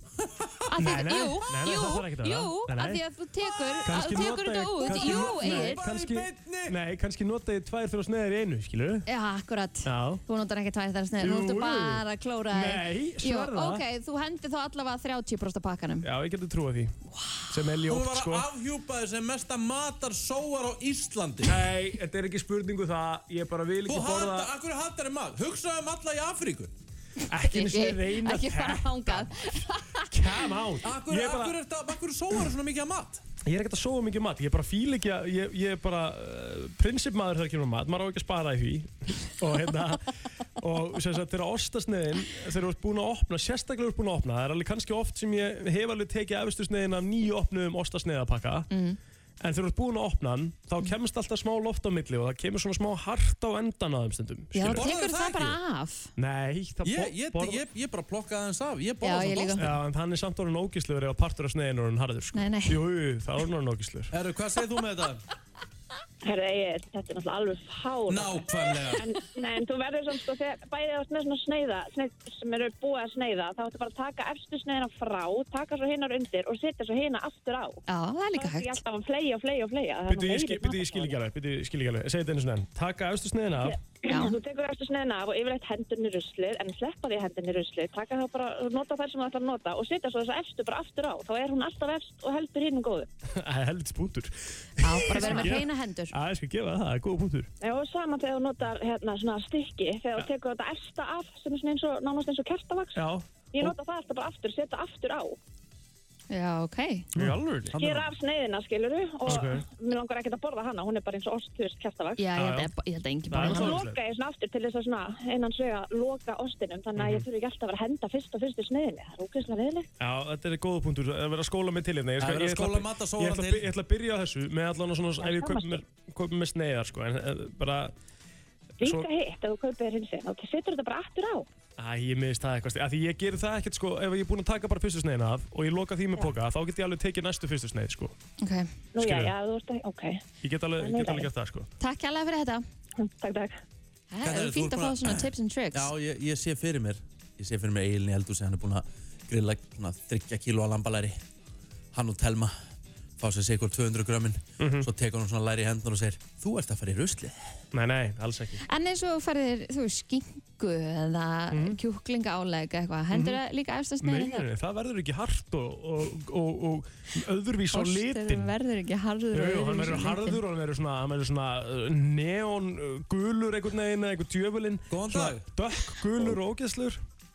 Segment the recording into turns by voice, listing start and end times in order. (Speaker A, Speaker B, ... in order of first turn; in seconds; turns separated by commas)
Speaker A: 0.2-0.7, Speaker B: 0.7-5.8, Speaker C: 0.8-3.0, Speaker C: 3.8-9.1, Speaker A: 4.8-6.8, Speaker B: 9.1-16.1, Speaker C: 9.8-10.2, Speaker C: 11.2-13.8, Speaker C: 16.0-16.9, Speaker B: 17.1-17.5, Speaker C: 17.5-18.4, Speaker A: 17.9-21.6, Speaker C: 21.4-24.5, Speaker A: 23.9-26.7, Speaker C: 27.3-31.6, Speaker B: 27.4-30.1, Speaker A: 30.8-33.2, Speaker C: 33.4-48.7, Speaker B: 48.7-49.0, Speaker C: 49.4-54.9, Speaker B: 54.5-56.1, Speaker A: 54.7-55.6, Speaker C: 56.2-57.6, Speaker A: 56.8-59.7, Speaker B: 59.0-59.6, Speaker C: 59.6-64.1, Speaker B: 62.3-62.8, Speaker A: 64.1-65.2, Speaker D: 66.2-77.8, Speaker A: 68.1-69.1, Speaker B: 77.9-78.8, Speaker D: 78.3-81.2, Speaker C: 80.1-83.8, Speaker D: 83.6-93.1, Speaker B: 84.0-84.3, Speaker C: 93.3-97.5, Speaker B: 94.8-96.1, Speaker D: 97.6-105.4, Speaker C: 103.0-103.7, Speaker B: 106.3-107.1, Speaker C: 107.1-107.7, Speaker A: 107.2-108.1, Speaker D: 107.8-112.2, Speaker C: 109.2-109.6, Speaker B: 112.2-113.8, Speaker C: 112.3-112.7, Speaker C: 113.3-114.0, Speaker D: 113.4-119.9, Speaker C: 117.0-117.2, Speaker C: 120.0-127.9, Speaker A: 122.2-123.7, Speaker D: 125.2-125.8, Speaker D: 128.8-131.5, Speaker C: 128.8-129.1, Speaker C: 131.8-138.1, Speaker B: 138.4-138.7, Speaker D: 138.9-140.2, Speaker C: 139.0-139.3, Speaker C: 140.4-141.7, Speaker D: 140.8-141.3, Speaker B: 141.8-142.6, Speaker D: 143.0-143.6, Speaker B: 144.1-145.9, Speaker A: 144.2-151.2, Speaker A: 151.9-152.6, Speaker A: 153.2-157.6, Speaker C: 154.6-154.9, Speaker C: 157.7-158.6, Speaker B: 158.7-164.4, Speaker C: 161.5-161.8, Speaker C: 163.1-163.4, Speaker C: 164.0-168.5, Speaker B: 167.7-170.4, Speaker C: 169.3-177.0, Speaker A: 174.9-175.4